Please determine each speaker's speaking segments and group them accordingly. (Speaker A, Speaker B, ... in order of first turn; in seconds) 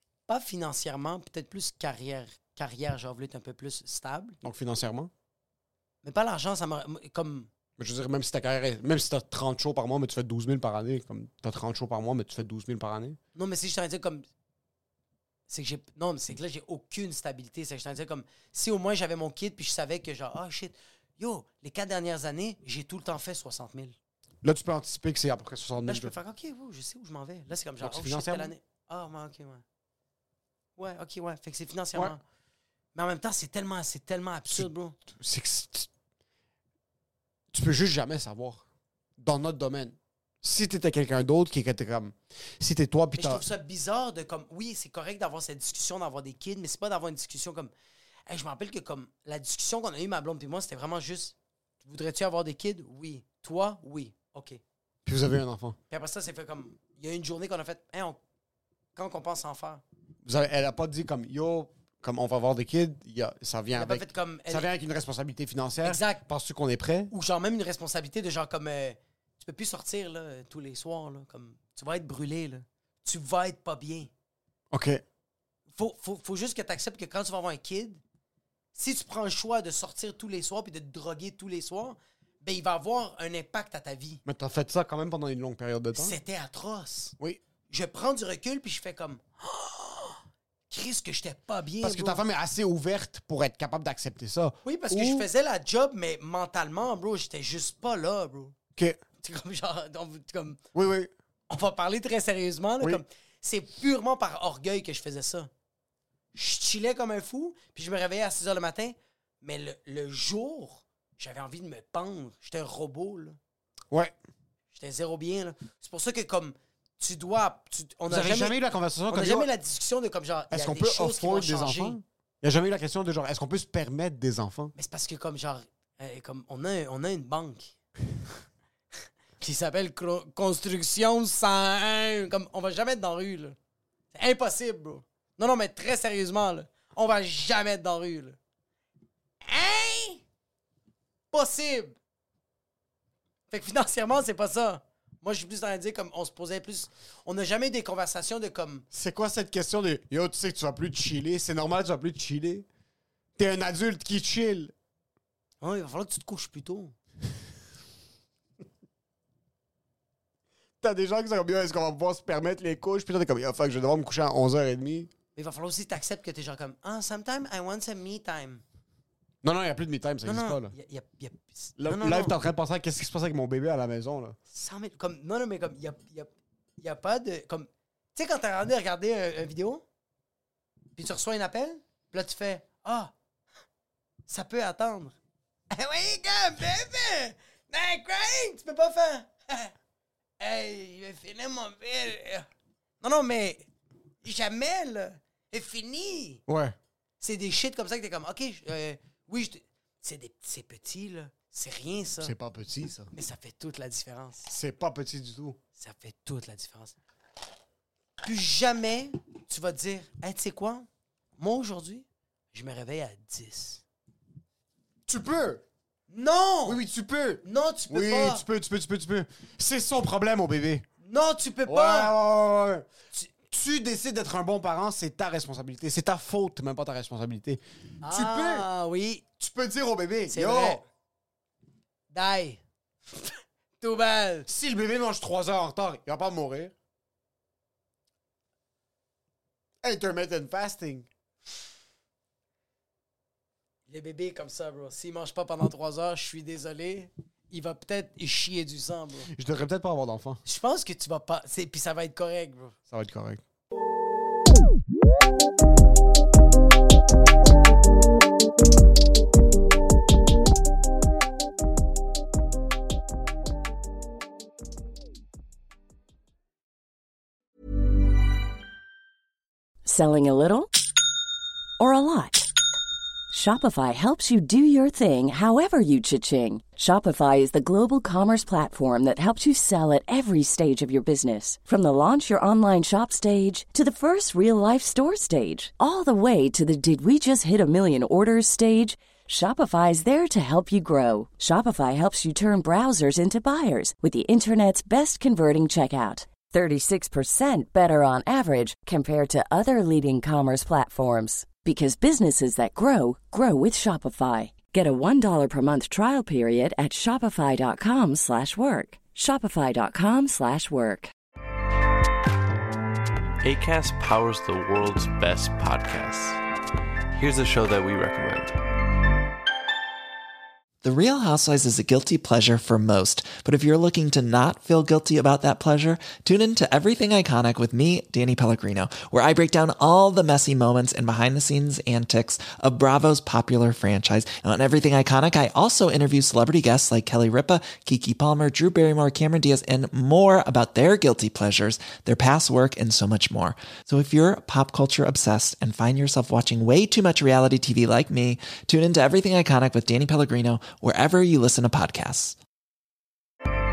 Speaker A: 0.3-4.4, 6.0-7.5, 13.3-14.2, 15.5-23.9, 25.9-29.6, 30.8-32.2, 32.9-35.0, 43.2-47.7, 48.3-54.6, 55.9-58.2, 59.0-59.8, 63.7-64.7, 65.8-66.2, 67.1-74.1, 75.7-78.0, 78.7-84.2, 85.9-87.1, 87.7-92.2, 94.6-98.5, 99.2-100.6, 101.5-105.5, 106.3-113.4, 114.7-118.6, 119.1-122.0, 124.8-127.7, 129.4-133.6, 134.1-138.4, 139.4-140.2, 141.3-141.9, 143.5-148.8, 155.6-156.9, 165.3-168.6, 170.2-172.4, 174.5-179.8, 181.0-183.1, 184.3-185.2, 185.7-189.7, 190.4-192.5, 193.0-193.7, 194.2-196.4, 197.2-202.3, 203.1-204.5, 205.8-206.9, 208.2-210.9, 211.4-213.8, 216.1-216.8, 217.4-218.4, 221.0-222.2, 228.0-229.2, 230.3-230.8, 232.1-234.5, 243.9-249.3, 250.4-252.8
Speaker B: 4.4-5.1, 7.8-13.2, 24.4-26.1, 27.8-28.5, 34.5-35.9, 37.5-38.6, 39.2-43.4, 55.0-55.8, 60.2-67.1, 74.7-75.0, 84.2-86.2, 91.8-95.3, 100.7-101.1, 113.9-114.2, 118.1-119.5, 120.5-124.7, 148.9-152.7, 153.4-154.7, 160.8-165.1, 169.4-170.7, 171.8-174.4, 196.5-196.8, 202.2-203.1, 204.5-205.6, 215.1-215.6, 216.6-220.8, 221.7-222.8, 223.5-228.7, 229.4-230.8, 234.5-236.7, 239.8-241.1, 249.3-250.4, 252.9-253.4
Speaker C: 269.8-270.7, 271.8-272.5, 273.3-311.1
Speaker D: 313.4-316.4, 317.1-318.6
Speaker E: 320.8-352.4